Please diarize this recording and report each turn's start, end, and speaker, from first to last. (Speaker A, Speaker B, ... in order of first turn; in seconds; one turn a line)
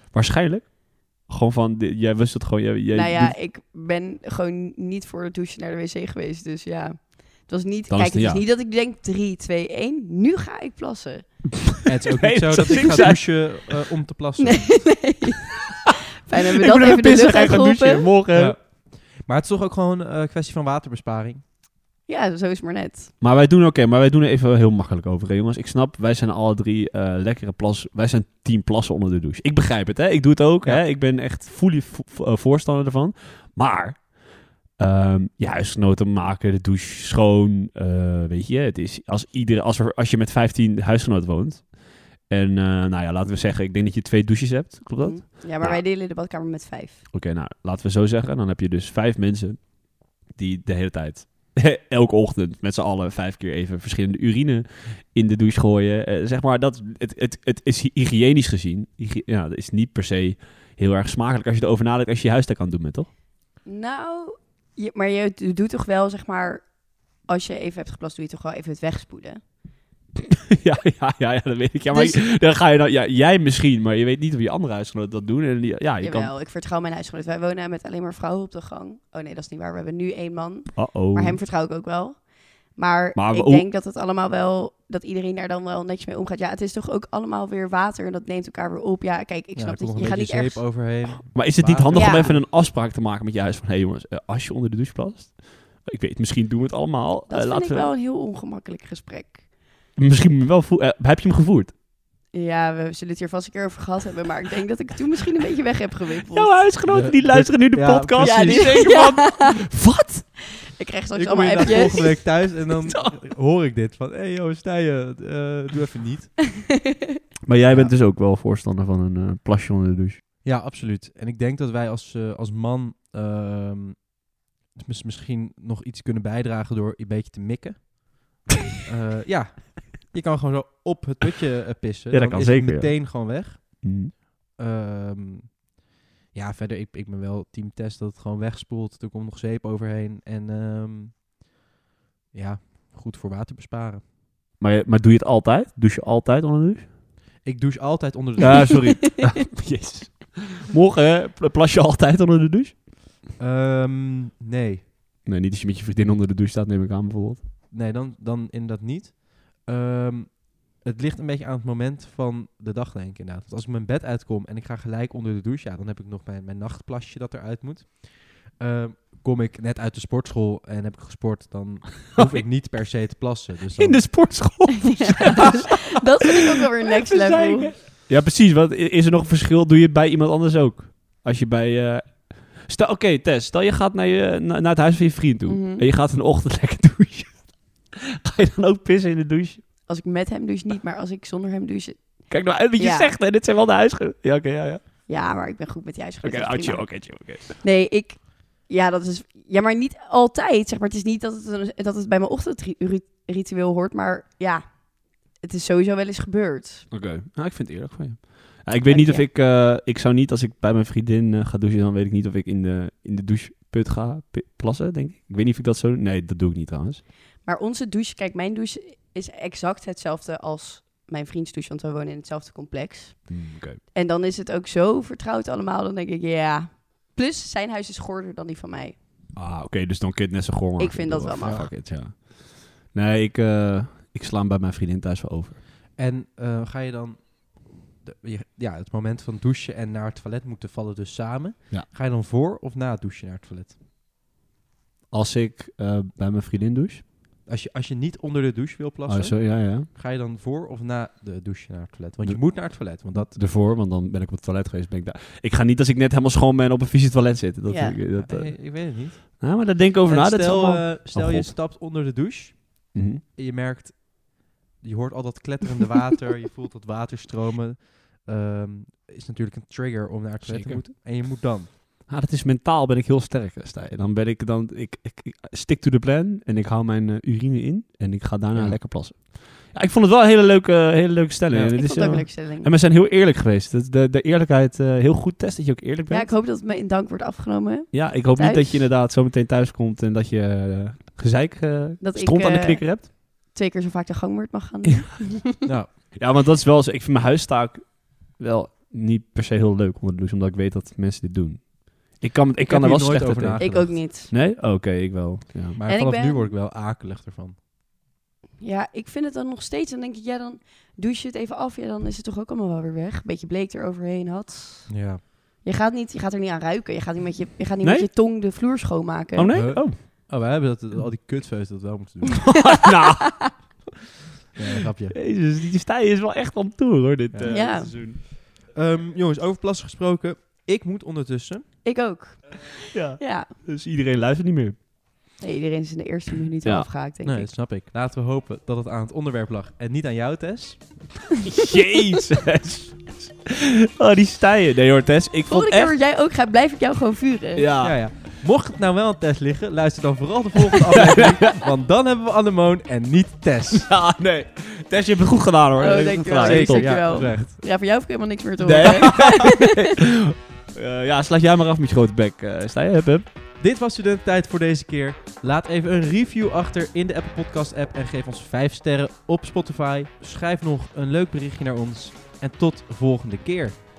Speaker A: 0.1-3.4
Speaker B: 2.9-11.7
Speaker A: 7.9-8.4
Speaker C: 11.8-14.8
Speaker A: 12.2-13.6
Speaker B: 12.6-13.2
Speaker B: 14.4-18.1
Speaker A: 16.6-18.6
Speaker C: 18.3-21.4
Speaker B: 22.1-23.1
Speaker A: 23.2-34.1
Speaker A: 34.7-45.8
Speaker B: 45.0-47.0
Speaker A: 47.1-63.1
Speaker B: 63.6-69.5
Speaker A: 70.5-76.3
Speaker B: 71.9-72.2
Speaker B: 76.0-90.7
Speaker A: 80.7-81.4
Speaker A: 83.1-83.7
Speaker C: 89.5-92.4
Speaker A: 91.2-97.9
Speaker B: 91.9-92.3
Speaker B: 97.3-99.5
Speaker A: 100.0-101.7
Speaker B: 102.3-106.6
Speaker A: 106.3-110.3
Speaker C: 106.8-108.9
Speaker B: 108.2-112.3
Speaker C: 111.1-116.6
Speaker A: 112.7-113.2
Speaker A: 117.4-120.2
Speaker C: 117.7-118.0
Speaker C: 120.4-124.2
Speaker C: 124.7-135.6
Speaker A: 132.1-134.1
Speaker C: 136.3-141.2
Speaker C: 142.3-144.0
Speaker A: 144.6-146.9
Speaker C: 147.4-148.9
Speaker A: 148.4-152.8
Speaker C: 153.4-154.9
Speaker A: 155.2-157.4
Speaker C: 157.7-174.3
Speaker A: 172.2-172.4
Speaker A: 173.8-175.8
Speaker B: 174.9-177.7
Speaker A: 177.0-189.6
Speaker B: 185.5-185.8
Speaker B: 189.8-193.1
Speaker A: 192.3-194.8
Speaker B: 195.1-206.9
Speaker A: 196.2-197.6
Speaker A: 206.9-217.0
Speaker B: 208.9-209.3
Speaker B: 217.4-229.0
Speaker A: 223.3-223.8
Speaker A: 229.3-235.6
Speaker B: 230.8-231.7
Speaker C: 231.4-231.7
Speaker C: 235.9-243.7
Speaker A: 245.1-247.0
Speaker C: 247.4-253.3
Speaker A: 249.1-249.9
Speaker A: 252.2-261.5
Speaker B: 257.7-258.0
Speaker C: 258.1-271.7
Speaker A: 262.9-263.2
Speaker A: 270.4-271.3
Speaker A: 272.1-286.3
Speaker C: 278.5-278.8
Speaker C: 281.5-281.8
Speaker B: 281.7-282.7
Speaker B: 286.1-288.9
Speaker A: 287.9-293.1
Speaker B: 292.0-295.6
Speaker C: 295.6-295.9
Speaker A: 296.1-305.8
Speaker C: 302.6-304.0
Speaker B: 303.6-304.3
Speaker C: 305.7-307.6
Speaker B: 305.9-306.5
Speaker B: 308.6-319.6
Speaker C: 314.9-315.2
Speaker A: 317.8-318.1
Speaker A: 319.3-320.0
Speaker C: 319.5-322.6
Speaker A: 322.4-323.7
Speaker B: 322.8-323.5
Speaker C: 324.6-325.1
Speaker A: 325.1-328.2
Speaker C: 327.3-331.7
Speaker B: 327.5-327.9
Speaker B: 331.8-333.5
Speaker A: 332.9-334.8
Speaker B: 335.4-337.5
Speaker A: 336.6-336.9
Speaker C: 337.2-341.1
Speaker A: 341.4-345.9
Speaker B: 345.5-347.7
Speaker A: 347.6-348.1
Speaker C: 347.8-353.9
Speaker A: 351.1-351.5
Speaker A: 353.9-357.4
Speaker B: 355.8-359.7
Speaker C: 356.4-357.5
Speaker A: 358.6-363.2
Speaker C: 363.6-373.8